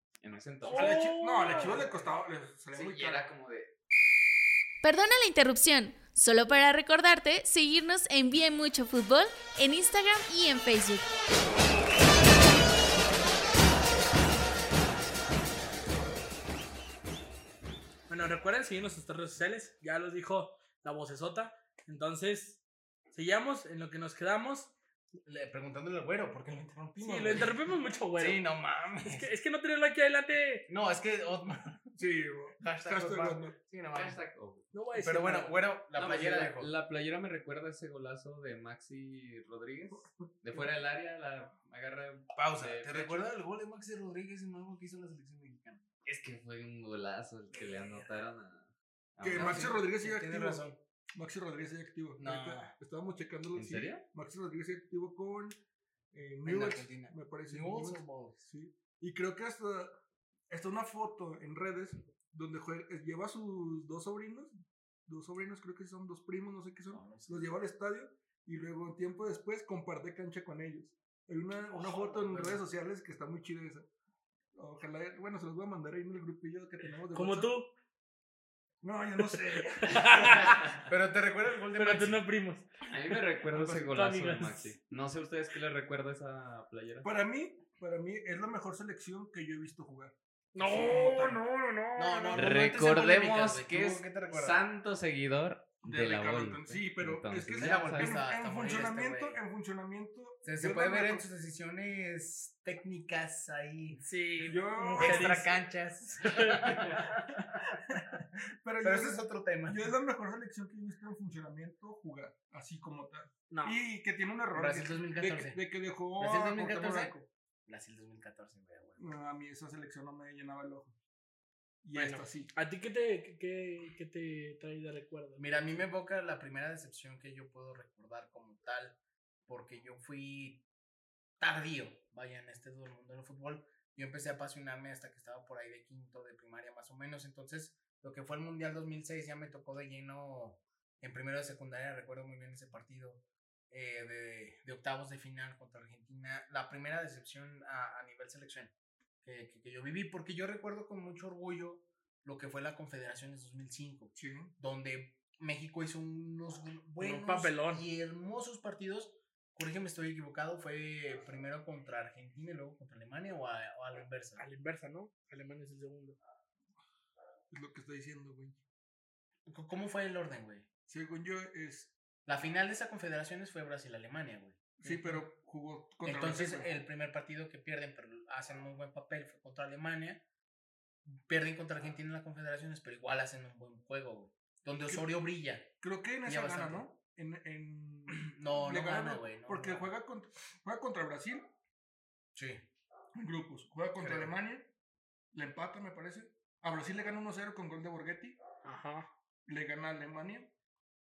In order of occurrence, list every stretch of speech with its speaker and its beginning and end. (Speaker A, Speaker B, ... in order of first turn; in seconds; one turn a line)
Speaker A: 0.2-1.1
Speaker B: 0.6-1.8
Speaker C: 0.7-3.2
Speaker A: 2.7-3.7
Speaker D: 4.8-11.1
Speaker B: 18.1-22.6
Speaker B: 23.1-24.7
Speaker E: 25.2-27.6
Speaker B: 27.0-28.4
Speaker E: 28.1-29.3
Speaker B: 29.0-30.7
Speaker E: 30.7-31.9
Speaker C: 32.0-33.6
Speaker E: 32.6-34.2
Speaker A: 33.9-34.7
Speaker B: 34.7-35.6
Speaker E: 35.0-36.7
Speaker A: 35.9-43.2
Speaker C: 39.9-40.6
Speaker E: 42.4-45.8
Speaker A: 46.0-49.8
Speaker E: 47.6-48.1
Speaker C: 49.2-50.6
Speaker E: 49.3-50.8
Speaker C: 51.1-55.6
Speaker E: 52.2-52.7
Speaker A: 53.5-54.0
Speaker C: 56.1-60.0
Speaker E: 56.4-58.4
Speaker C: 60.5-64.5
Speaker C: 65.1-73.9
Speaker E: 66.9-67.5
Speaker E: 71.7-72.6
Speaker C: 74.5-77.5
Speaker B: 77.1-77.7
Speaker C: 78.8-80.5
Speaker B: 79.8-80.6
Speaker E: 80.1-82.2
Speaker B: 81.8-82.7
Speaker A: 82.9-87.1
Speaker B: 83.5-84.7
Speaker C: 87.0-91.4
Speaker B: 90.5-92.5
Speaker E: 92.0-94.6
Speaker A: 92.3-98.2
Speaker C: 95.8-101.3
Speaker E: 97.6-99.4
Speaker E: 100.4-104.0
Speaker B: 104.0-105.6
Speaker C: 104.5-105.4
Speaker E: 105.0-108.2
Speaker B: 106.2-107.1
Speaker C: 107.9-117.3
Speaker E: 108.8-110.0
Speaker B: 113.5-113.8
Speaker E: 114.5-115.6
Speaker E: 116.2-119.1
Speaker C: 119.0-121.0
Speaker C: 121.8-122.5
Speaker B: 121.9-125.5
Speaker E: 125.4-130.6
Speaker E: 131.4-148.7
Speaker E: 149.2-164.4
Speaker C: 154.2-154.5
Speaker B: 157.0-157.8
Speaker B: 164.4-166.2
Speaker C: 167.5-168.6
Speaker E: 169.5-170.7
Speaker C: 170.9-171.9
Speaker E: 172.3-175.2
Speaker C: 174.8-176.7
Speaker E: 176.0-180.2
Speaker E: 181.1-185.7
Speaker C: 185.8-191.5
Speaker E: 186.2-186.8
Speaker E: 188.1-189.9
Speaker E: 192.3-192.7
Speaker C: 193.2-194.7
Speaker E: 194.0-194.3
Speaker C: 195.3-198.4
Speaker B: 198.6-199.1
Speaker C: 199.5-200.5